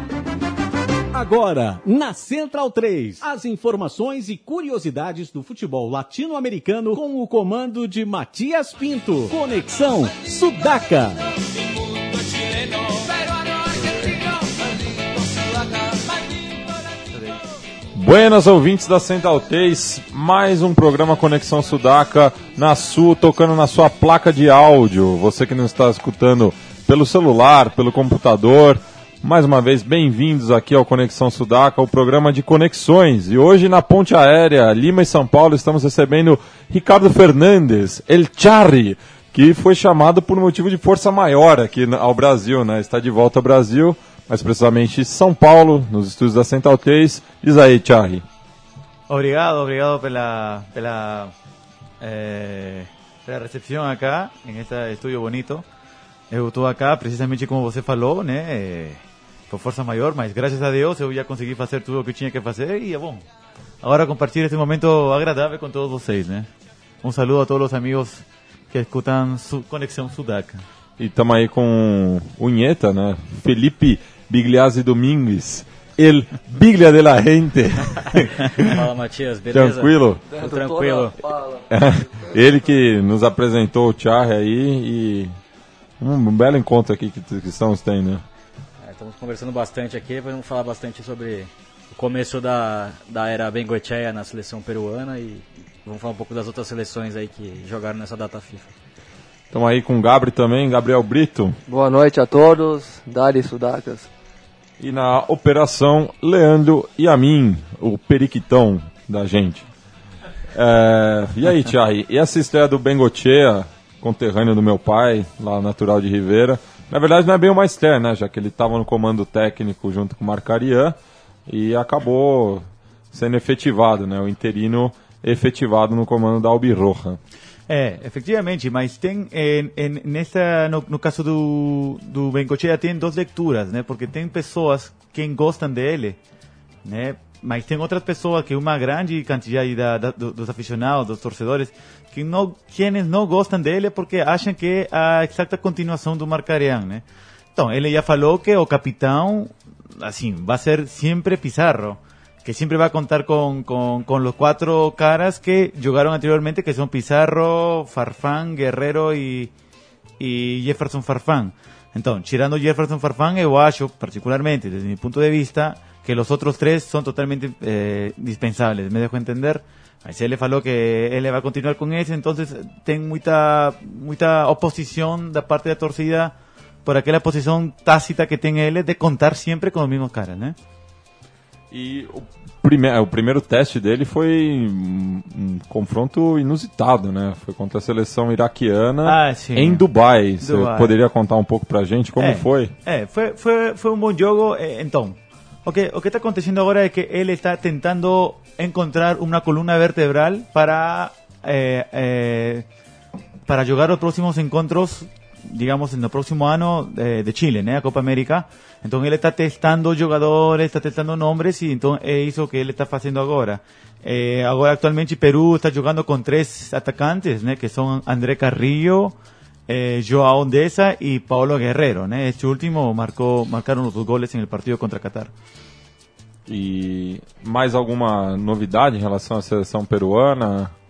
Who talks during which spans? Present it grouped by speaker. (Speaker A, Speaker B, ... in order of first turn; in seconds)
Speaker A: 1.1-11.2
Speaker B: 17.9-48.2, 71.0-78.8, 79.5-80.2, 81.7-85.4, 86.0-88.2, 99.5-101.6, 104.8-109.7, 110.5-127.2, 181.7-192.7, 226.5-230.7
Speaker C: 49.1-51.3, 52.0-55.6, 56.3-63.2, 63.8-66.5, 67.0-70.6, 127.7-136.2, 136.8-159.5, 160.2-180.6, 189.0-189.8, 190.4-191.0, 192.2-202.7, 203.5-219.2, 219.7-225.3
Speaker D: 78.5-81.2, 88.8-98.7
Speaker E: 80.3-81.7, 101.7-104.1